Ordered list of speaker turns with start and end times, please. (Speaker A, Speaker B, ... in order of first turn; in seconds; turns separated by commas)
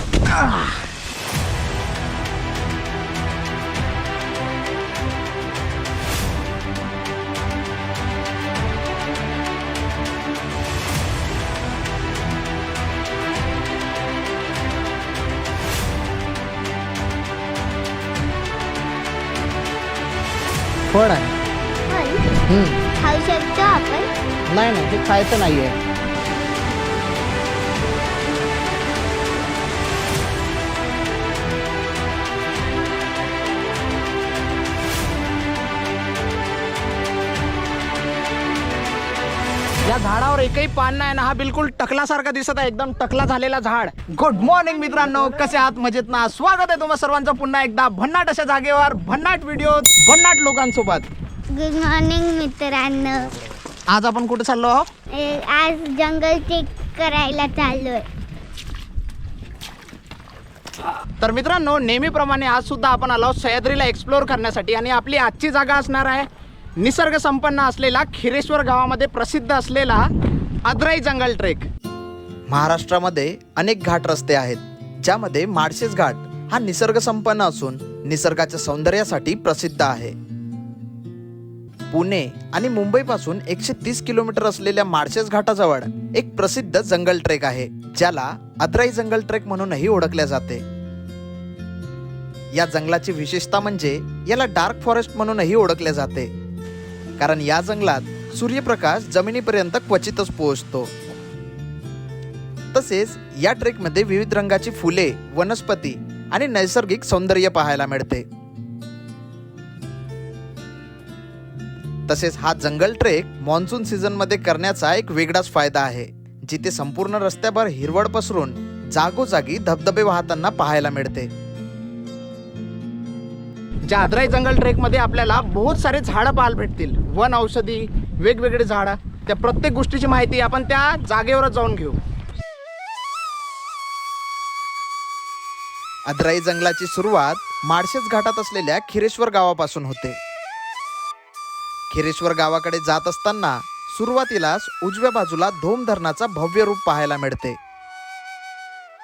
Speaker A: 0.2-0.8, Speaker A: 20.9-21.4, Speaker B: 21.9-22.4, Speaker A: 22.5-22.8, Speaker B: 23.0-24.1, Speaker A: 24.5-25.8, Speaker A: 39.9-51.1, Speaker B: 51.5-53.3, Speaker A: 53.9-54.9, Speaker B: 55.1-58.0, Speaker A: 61.2-66.3, Speaker A: 66.8-70.1, Speaker A: 70.6-71.7, Speaker C: 72.5-80.2, Speaker C: 81.9-90.6, Speaker C: 92.5-96.3, Speaker C: 97.2-100.9, Speaker C: 102.7-108.3, Speaker C: 112.1-121.3, Speaker A: 123.9-132.0, Speaker C: 136.1-140.2, Speaker C: 141.9-147.6